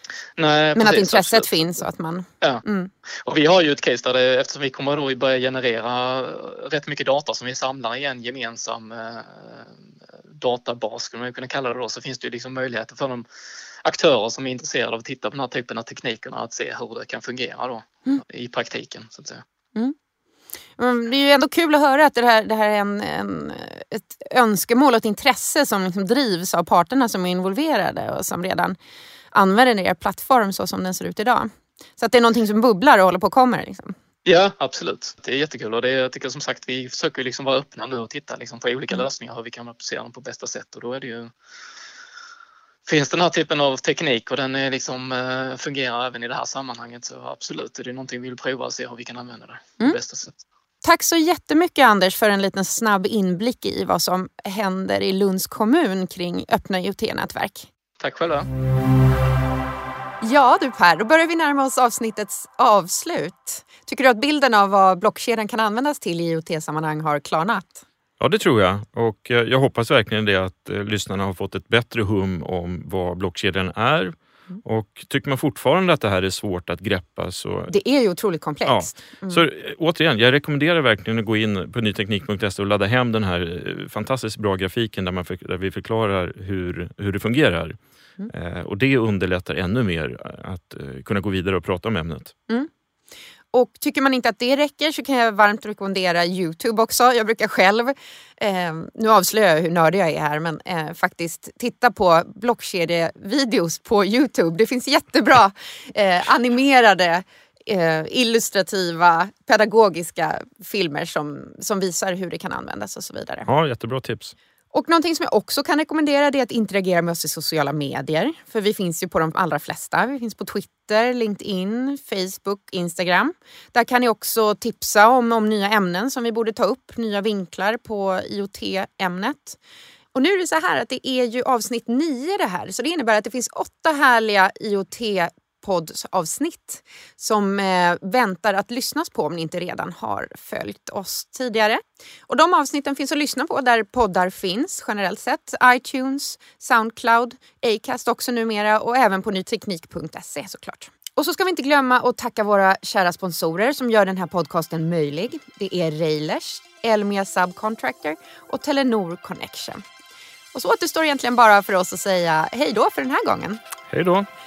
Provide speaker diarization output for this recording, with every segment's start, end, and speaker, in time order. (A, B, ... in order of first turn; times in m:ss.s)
0:00.4-0:01.8 A
0:00.8-0:02.9 B
0:03.2-0:09.8 A
0:10.4-0:13.3 A
0:13.8-0:19.4 A
0:20.8-0:28.8 B
0:29.3-0:33.9 B
0:34.2-0:41.3 A
0:42.9-0:50.4 A
0:50.8-0:57.7 B
0:58.0-0:58.5 A
1:00.2-1:07.8 B
1:08.2-1:17.7 C
1:17.7-1:19.4 B
1:18.6-1:27.8 C
1:28.3-1:32.3 C
1:33.5-1:53.5 B
1:53.5-1:54.4 C
1:54.7-2:09.6 B
2:10.1-2:39.8 B
2:40.5-2:43.6 B
2:43.9-2:44.3 C